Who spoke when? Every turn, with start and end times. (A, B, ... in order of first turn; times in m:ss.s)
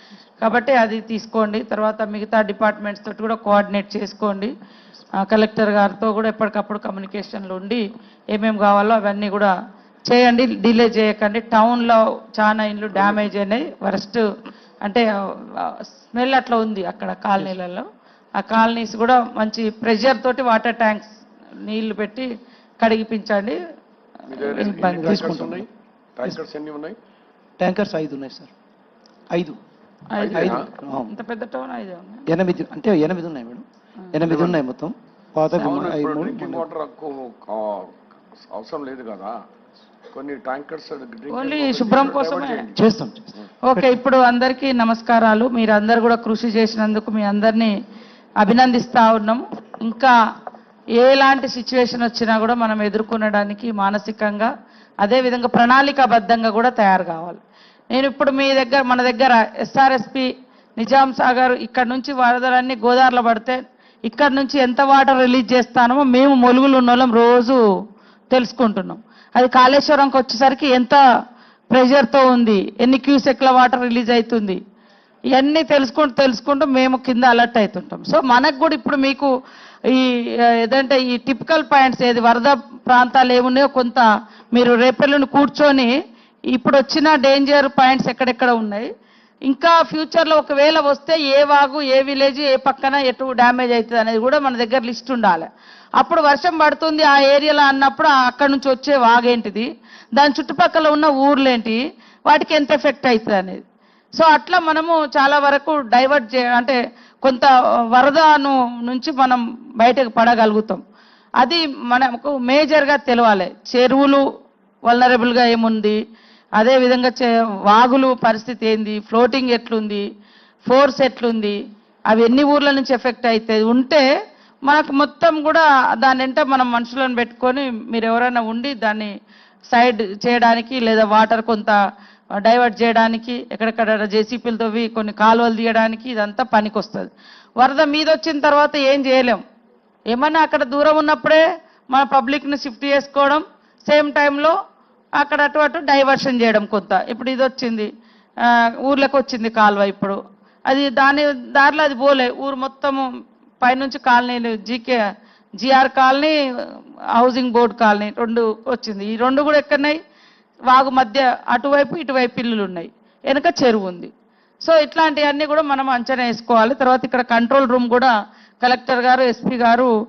0:00.4-0:04.5 A
0:05.2-0:07.8 A
0:08.3-0:09.5 A
0:10.1-0:14.2 A
0:14.8-0:17.9 A
0:18.4-0:21.1 A
0:21.6-0:22.3 A
0:22.8-0:23.6 A
0:24.3-0:27.0 B
0:24.4-0:25.2 A
0:25.0-0:25.7 C
0:27.6-0:28.5 C
0:29.3-0:29.6 C
0:30.1-0:32.2 A
0:30.2-0:30.7 B
0:30.3-0:31.1 C
0:32.3-0:36.7 C
0:34.2-0:34.6 B
0:35.6-0:39.4 B
0:40.1-0:42.8 B
0:41.3-0:42.7 A
0:42.7-0:43.9 C
0:43.6-0:47.7 A
0:48.4-0:50.1 A
0:51.0-0:54.5 A
0:55.0-0:57.4 A
0:57.9-1:07.6 A
1:08.3-1:11.0 A
1:11.7-1:14.6 A
1:15.3-1:19.3 A
1:19.9-1:25.9 A
1:26.5-1:28.9 A
1:29.5-1:43.6 A
1:44.2-1:50.8 A
1:51.4-1:54.2 A
1:54.9-1:56.0 A
1:56.6-2:00.0 A
2:00.7-2:01.6 A
2:02.1-2:04.0 A
2:04.7-2:09.1 A
2:09.7-2:11.8 A
2:12.4-2:19.4 A
2:20.1-2:24.5 A
2:25.2-2:27.9 A
2:28.4-2:33.0 A
2:33.6-2:35.0 A
2:35.6-2:36.3 A
2:37.1-2:40.0 A
2:40.7-2:44.1 A
2:44.6-2:49.9 A